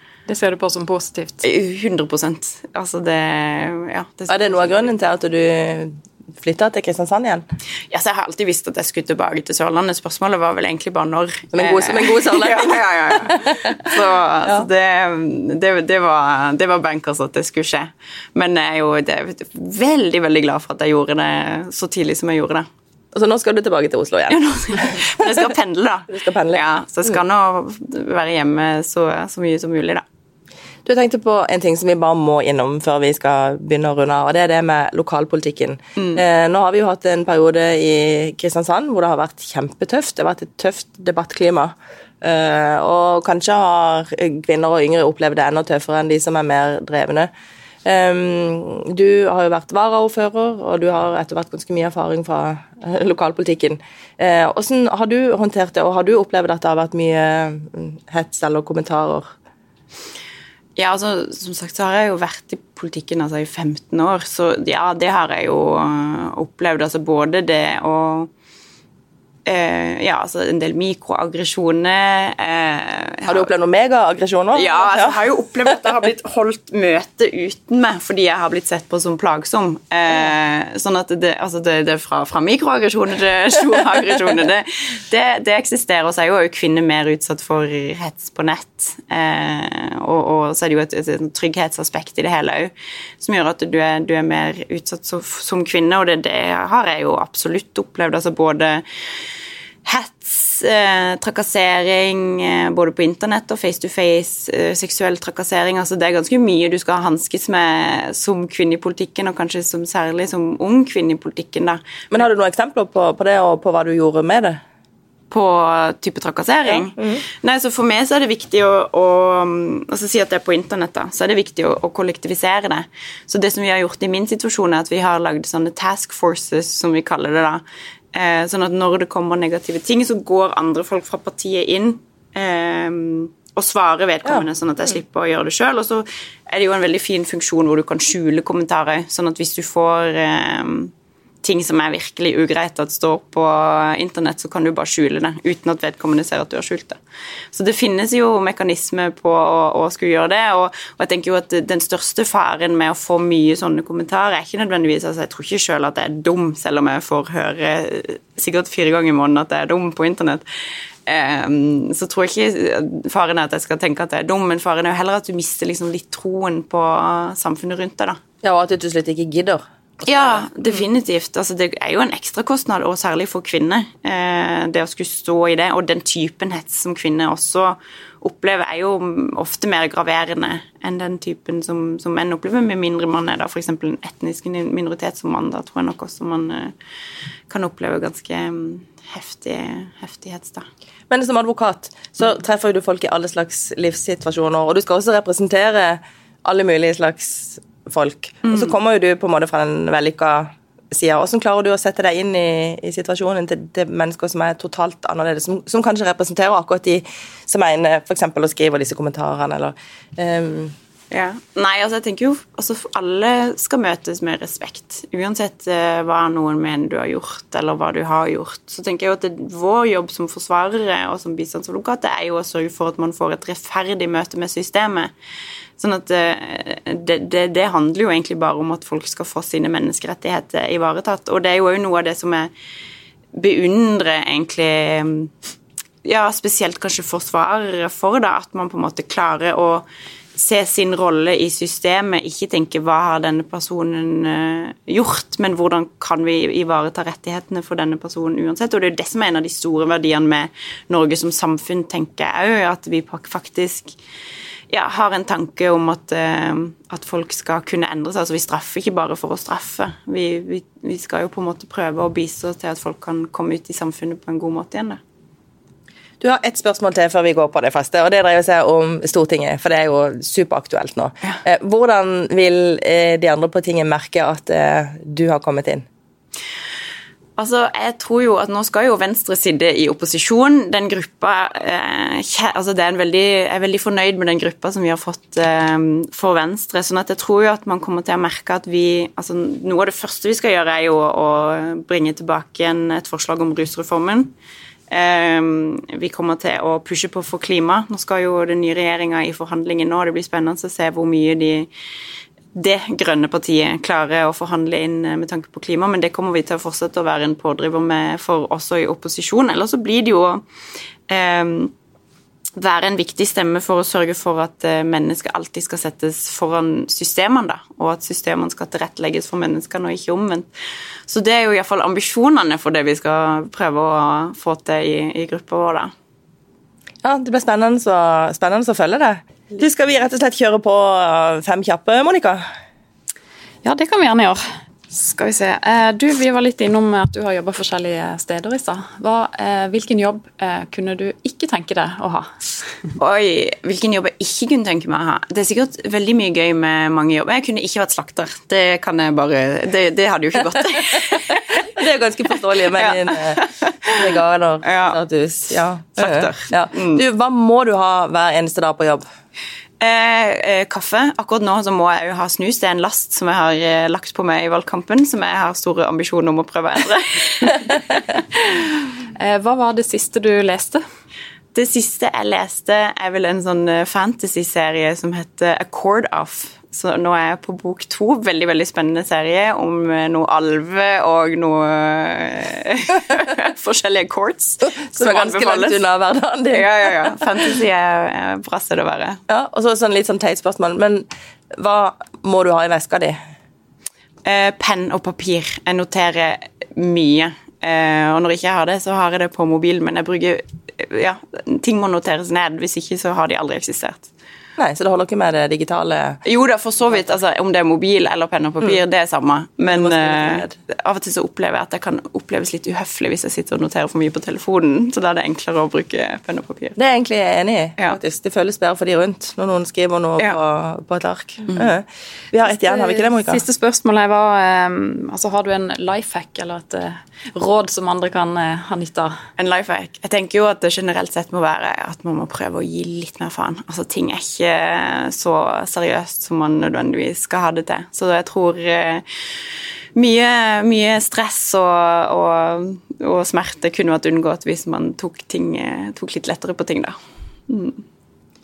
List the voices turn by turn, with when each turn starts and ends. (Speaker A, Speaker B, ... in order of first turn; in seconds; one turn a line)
Speaker A: 0.3-1.4
Speaker B: 1.4-4.9
Speaker C: 4.3-7.4
Speaker B: 7.9-22.7
Speaker C: 11.5-13.8
Speaker C: 23.1-25.5
Speaker B: 24.3-30.0
Speaker C: 26.1-27.2
Speaker C: 30.8-47.3
Speaker B: 36.0-36.2
Speaker C: 47.8-59.3
Speaker B: 60.8-68.3
Speaker B: 69.5-73.5
Speaker C: 73.3-75.2
Speaker B: 74.5-98.8
Speaker B: 99.8-112.2
Speaker C: 112.1-114.6
Speaker B: 115.3-140.9
Speaker C: 116.6-117.2
Speaker B: 141.4-147.0
Speaker B: 147.5-160.4
Speaker B: 161.1-168.2
Speaker C: 168.4-170.5
Speaker B: 170.0-186.7
Speaker B: 187.5-190.7
Speaker C: 191.1-210.7
Speaker B: 198.4-198.7
Speaker B: 211.1-225.1
Speaker B: 225.8-232.5
Speaker B: 233.3-235.3
Speaker B: 236.0-253.9
Speaker B: 254.7-265.0
Speaker C: 266.2-275.9
Speaker B: 277.4-294.3
Speaker B: 294.9-301.7
Speaker B: 302.5-310.4
Speaker B: 311.1-311.7
Speaker B: 312.6-320.5
Speaker B: 321.1-325.9
Speaker C: 327.0-332.4
Speaker A: 333.6-342.4
Speaker B: 343.0-351.6
Speaker C: 351.5-359.0
Speaker B: 352.7-354.0
Speaker B: 354.6-355.0
Speaker B: 355.9-357.0
Speaker B: 359.8-367.7
Speaker A: 369.1-370.8
Speaker B: 371.5-385.8
Speaker C: 384.6-387.1
Speaker B: 386.5-389.2
Speaker C: 389.3-393.2
Speaker B: 394.2-404.1
Speaker C: 404.6-406.2
Speaker B: 406.2-416.8
Speaker C: 409.6-410.5
Speaker C: 416.8-423.4
Speaker A: 422.6-429.2
Speaker B: 429.4-439.0
Speaker B: 439.9-446.9
Speaker B: 447.5-447.8